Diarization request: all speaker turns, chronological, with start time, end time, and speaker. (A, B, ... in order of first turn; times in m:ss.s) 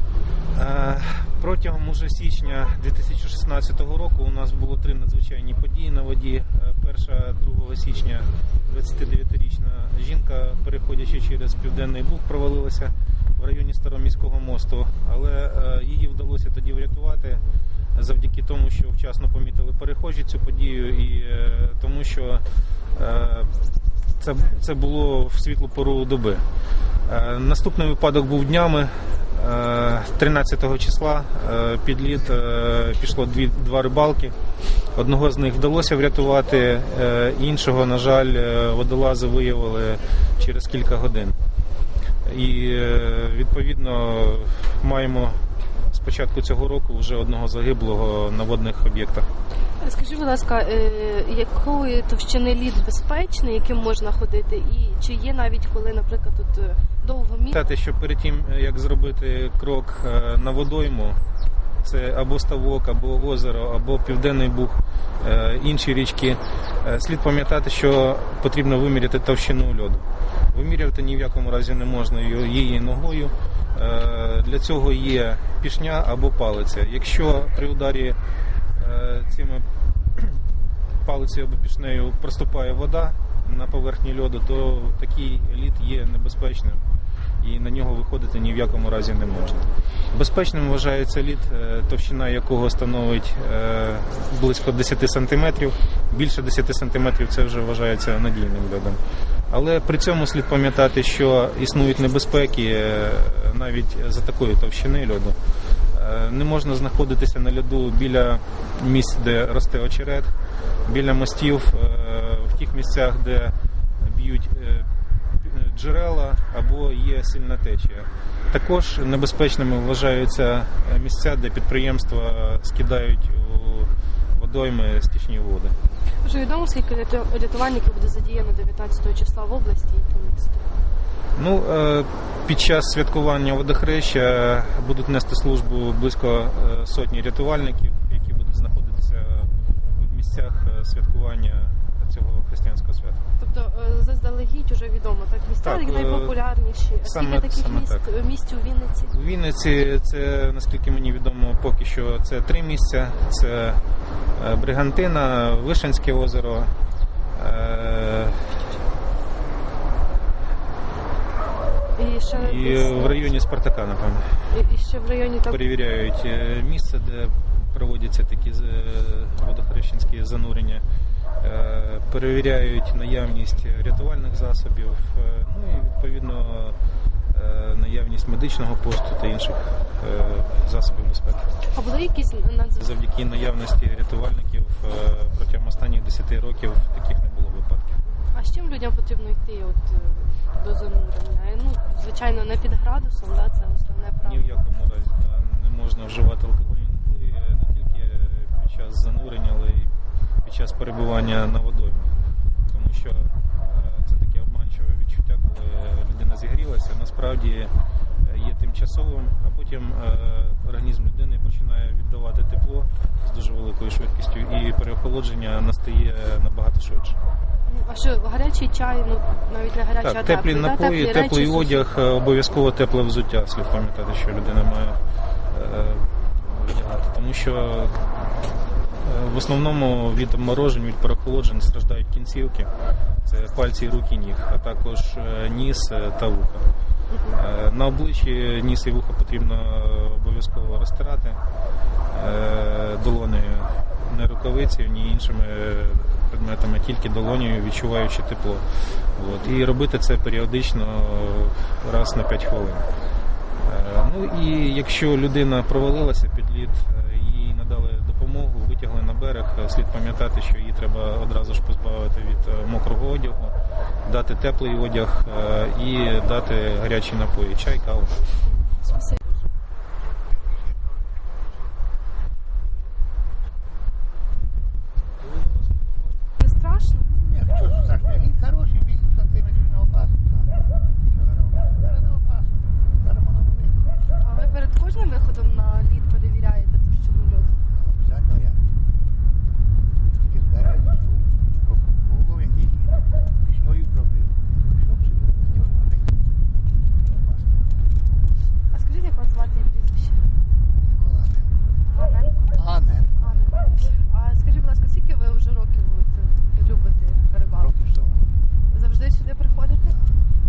0:00.6-0:17.4 A
0:18.0-0:22.4 A
0:23.0-0:23.5 A
0:24.2-0:26.4 A
0:27.1-0:34.3 A
0:35.0-0:41.4 A
0:42.2-0:45.4 A
0:45.9-0:49.2 A
0:49.8-0:57.5 B
0:57.5-1:01.2 A
1:01.8-1:18.2 A
1:18.8-1:19.6 A
1:21.0-1:26.8 A
1:27.4-1:39.0 A
1:39.5-1:45.4 A
1:45.9-1:50.3 A
1:50.8-1:54.9 A
1:55.4-2:05.7 A
2:06.2-2:10.7 B
2:11.4-2:23.2 A
2:23.4-2:29.1 B
2:25.6-2:26.4 A
2:27.0-2:28.0 A
2:29.1-2:33.8 A
2:34.4-2:36.7 A
2:37.4-2:38.5 A
2:42.0-2:43.4 B
2:42.4-2:44.2 A
2:44.5-2:45.6 B
2:45.5-2:50.8 A
2:51.4-2:56.8 A
2:57.3-3:01.5 A
3:01.7-3:02.8 B
3:02.8-3:08.0 A
3:08.1-3:14.6 B
3:14.2-3:19.9 A
3:20.4-3:22.1 A
3:22.7-3:27.7 A
3:28.2-3:37.2 A
3:37.7-3:41.8 B
3:40.0-3:45.0 A
3:45.5-3:48.0 A
3:49.0-3:52.7 A
3:53.2-3:56.7 A
3:57.1-3:57.4 B
3:57.3-4:01.4 A
4:02.1-4:08.6 A
4:09.2-4:12.8 A
4:13.6-4:23.5 A
4:24.0-4:28.1 A
4:28.5-4:29.2 B
4:36.4-4:37.1 B
4:37.1-4:43.9 C
4:44.2-4:47.6 B
4:47.7-4:48.6 C
4:50.1-4:56.1 C
4:57.0-4:57.9 C
4:58.7-5:00.2 B
5:00.8-5:01.6 C
5:01.9-5:07.7 B
5:02.5-5:03.5 C
5:07.5-5:08.2 C
5:08.7-5:09.9 B
5:09.8-5:10.2 C